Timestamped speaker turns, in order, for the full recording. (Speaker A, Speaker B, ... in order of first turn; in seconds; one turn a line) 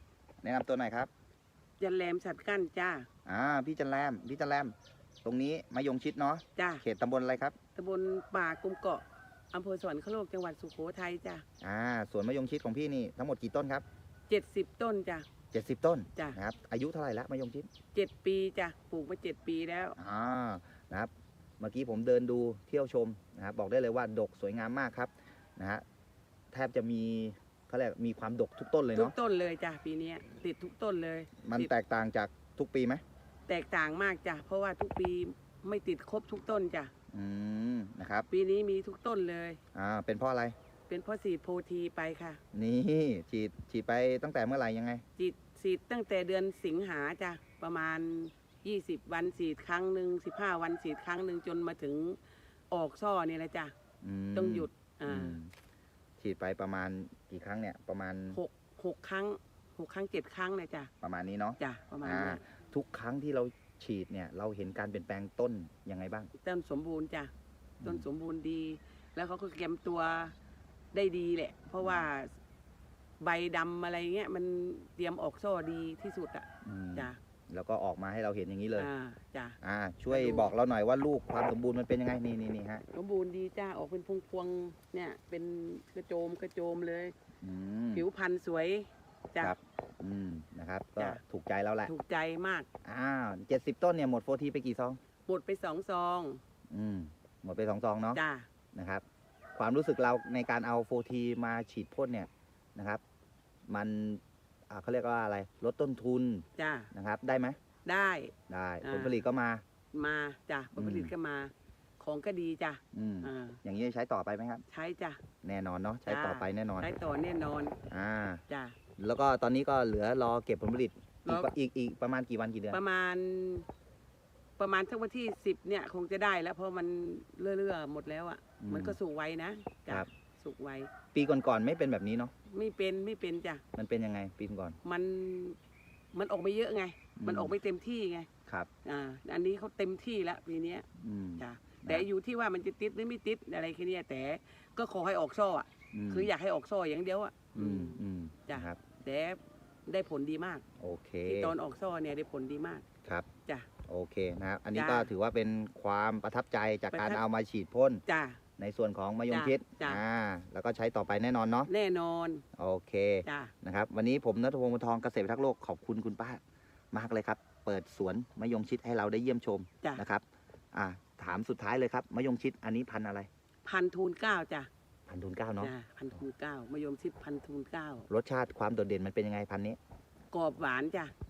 Speaker A: 0.4-1.1
Speaker B: 1.8-3.1
Speaker A: 3.3-4.7
Speaker A: 5.2-7.5
Speaker B: 6.6-6.8
Speaker B: 7.8-11.4
Speaker A: 11.6-13.8
Speaker B: 14.3-15.3
Speaker A: 15.5-17.7
Speaker B: 17.9-20.0
Speaker A: 20.0-25.8
Speaker A: 26.5-29.1
Speaker B: 28.9-31.7
Speaker A: 31.4-33.0
Speaker B: 33.5-36.9
Speaker A: 37.1-38.3
Speaker B: 38.3-39.6
Speaker A: 39.8-40.5
Speaker B: 40.9-42.4
Speaker A: 42.5-45.0
Speaker B: 45.2-52.2
Speaker B: 52.7-53.7
Speaker A: 54.0-55.5
Speaker B: 54.3-55.4
Speaker A: 56.2-58.4
Speaker B: 58.3-60.9
Speaker A: 61.0-66.3
Speaker B: 61.6-62.4
Speaker B: 66.4-67.3
Speaker B: 67.8-70.3
Speaker B: 70.9-72.3
Speaker A: 71.8-72.1
Speaker B: 73.2-77.2
Speaker A: 76.6-78.9
Speaker B: 78.8-79.6
Speaker A: 79.6-82.8
Speaker B: 80.1-80.5
Speaker B: 82.9-87.1
Speaker A: 87.4-88.0
Speaker B: 87.9-89.5
Speaker A: 89.4-91.9
Speaker B: 91.9-92.7
Speaker A: 92.8-95.0
Speaker B: 95.3-96.4
Speaker A: 96.7-98.2
Speaker B: 98.1-98.5
Speaker A: 98.7-99.0
Speaker A: 99.5-103.0
Speaker A: 103.7-107.6
Speaker B: 106.6-106.9
Speaker B: 107.8-109.2
Speaker A: 108.5-109.6
Speaker B: 109.9-113.6
Speaker A: 110.8-111.1
Speaker A: 112.9-114.6
Speaker B: 114.7-115.2
Speaker A: 115.4-116.9
Speaker B: 116.1-117.8
Speaker A: 117.9-118.4
Speaker B: 118.5-118.8
Speaker A: 119.0-122.8
Speaker B: 121.2-121.5
Speaker B: 122.7-123.7
Speaker B: 124.6-130.9
Speaker A: 128.6-129.0
Speaker A: 131.1-132.3
Speaker B: 132.5-133.6
Speaker A: 133.8-134.8
Speaker B: 134.8-135.6
Speaker B: 136.1-138.3
Speaker A: 137.2-137.5
Speaker B: 138.8-140.9
Speaker A: 141.0-142.1
Speaker B: 141.4-150.6
Speaker A: 145.9-146.3
Speaker A: 147.6-148.8
Speaker A: 150.8-151.6
Speaker B: 151.3-152.9
Speaker A: 153.9-158.0
Speaker B: 154.8-155.1
Speaker B: 156.9-157.2
Speaker B: 158.1-158.4
Speaker A: 158.6-161.7
Speaker B: 159.3-160.0
Speaker B: 161.7-162.4
Speaker A: 162.6-166.4
Speaker B: 163.2-163.5
Speaker A: 166.9-170.2
Speaker A: 170.7-173.3
Speaker B: 173.7-174.7
Speaker A: 175.1-175.7
Speaker B: 175.6-178.1
Speaker A: 178.1-179.8
Speaker B: 180.3-181.1